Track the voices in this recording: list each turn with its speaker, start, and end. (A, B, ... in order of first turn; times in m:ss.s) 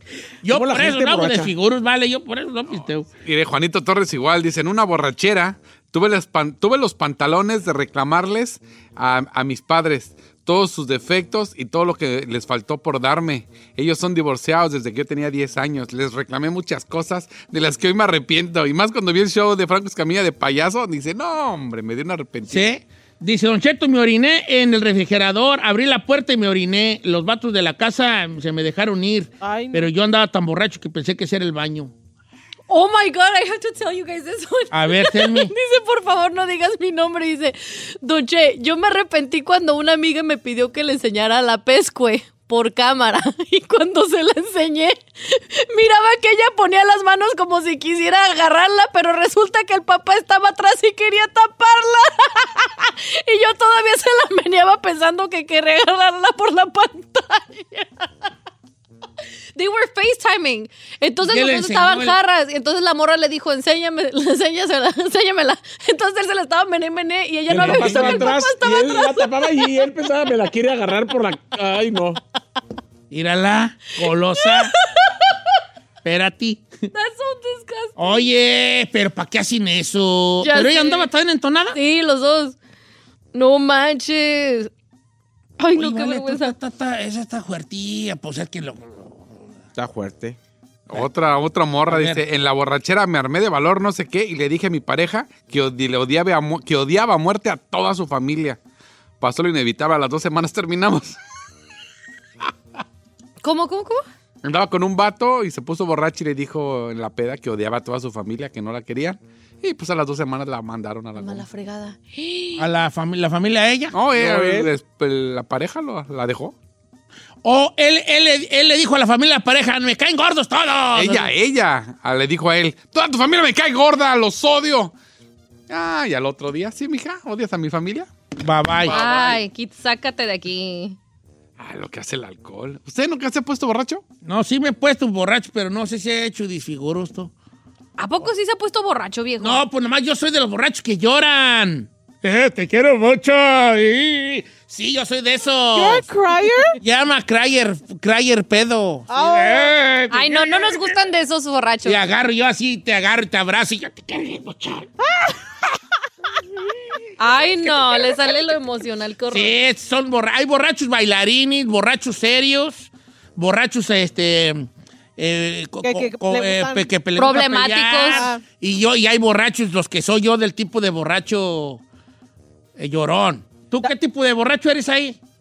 0:00.4-0:03.1 A
0:00.5-0:01.5 B
0:02.8-0:22.7 C
0:22.5-0:31.9 A
0:29.4-0:29.9 D
0:32.7-0:58.1 E
0:34.7-0:35.5 A
0:59.6-1:09.7 E
1:01.2-1:02.2 A
1:07.5-1:12.2 B
1:07.5-1:08.4 A
1:13.1-1:14.7 A
1:14.4-1:15.4 E
1:16.0-1:16.9 A
1:16.9-1:18.3 E
1:18.0-1:21.8 A
1:20.4-1:21.1 E
1:21.7-1:22.6 E
1:23.3-1:24.7 E
1:25.6-1:26.6 E
1:25.7-1:29.3 A
1:29.8-1:30.4 B
1:30.9-1:38.6 C
1:31.9-1:32.2 A
1:39.2-1:41.2 C
1:43.4-1:44.0 E
1:44.4-1:51.5 C
1:51.2-1:52.6 E
1:52.6-1:54.0 A
1:53.9-1:56.5 C
1:54.2-1:54.7 B
1:57.4-2:01.3 A
2:00.9-2:05.0 C
2:05.7-2:08.1 C
2:08.4-2:09.0 A
2:08.8-2:09.4 C
2:08.9-2:11.0 E
2:11.6-2:14.0 C
2:14.2-2:17.3 A
2:18.0-2:19.6 E
2:19.4-2:26.1 A
2:25.7-2:26.8 D
2:26.8-2:30.7 A
2:29.1-2:29.8 D
2:30.1-2:32.0 E
2:31.8-2:34.9 A
2:35.0-2:35.4 D
2:37.2-2:39.5 E
2:39.3-2:51.8 A
2:45.8-2:46.9 D
2:47.2-2:48.3 E
2:48.1-2:48.4 D
2:52.8-2:55.2 A